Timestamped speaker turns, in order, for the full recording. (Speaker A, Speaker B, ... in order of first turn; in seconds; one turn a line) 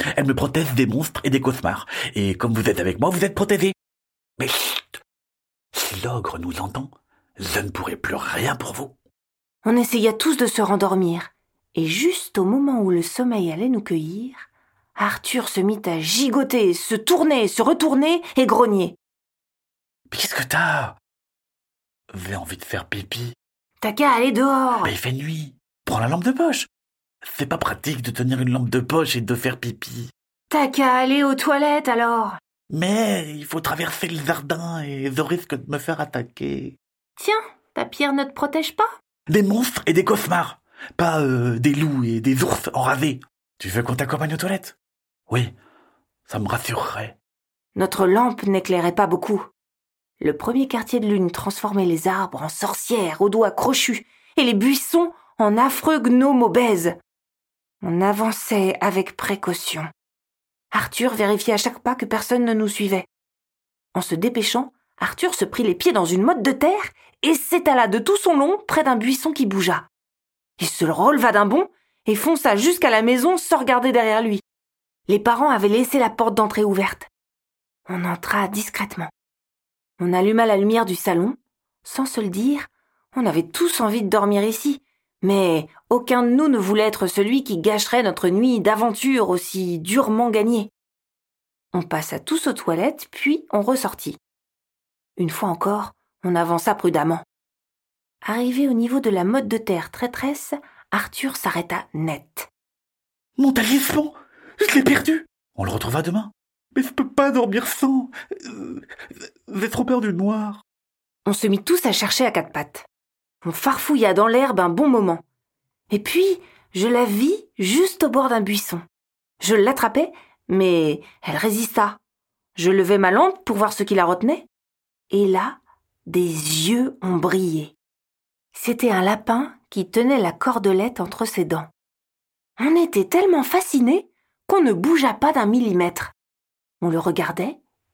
Speaker A: 0.1-3.7
Speaker A: 4.4-5.0
Speaker A: 5.7-8.9
Speaker B: 9.6-18.9
Speaker A: 20.1-21.0
Speaker A: 22.1-23.4
Speaker B: 23.8-24.9
Speaker A: 24.8-26.7
Speaker A: 27.3-30.1
Speaker B: 30.5-32.4
Speaker A: 32.7-36.8
Speaker B: 37.2-39.0
Speaker A: 39.3-44.8
Speaker A: 45.3-45.5
Speaker A: 46.3-47.1
Speaker B: 47.8-49.5
Speaker B: 50.2-57.0
Speaker B: 57.8-59.9
Speaker B: 60.7-63.1
Speaker B: 63.9-69.9
Speaker B: 70.6-74.4
Speaker B: 75.1-77.1
Speaker B: 77.9-79.1
Speaker B: 80.0-90.7
Speaker B: 91.7-94.2
Speaker B: 95.2-97.2
Speaker B: 98.2-102.5
Speaker A: 103.4-108.9
Speaker A: 109.5-110.6
Speaker B: 111.2-112.8
Speaker B: 113.4-115.2
Speaker B: 115.9-118.8
Speaker B: 119.4-122.0
Speaker B: 122.5-124.5
Speaker B: 125.1-127.7
Speaker B: 128.5-131.7
Speaker B: 132.6-136.1
Speaker B: 136.8-137.6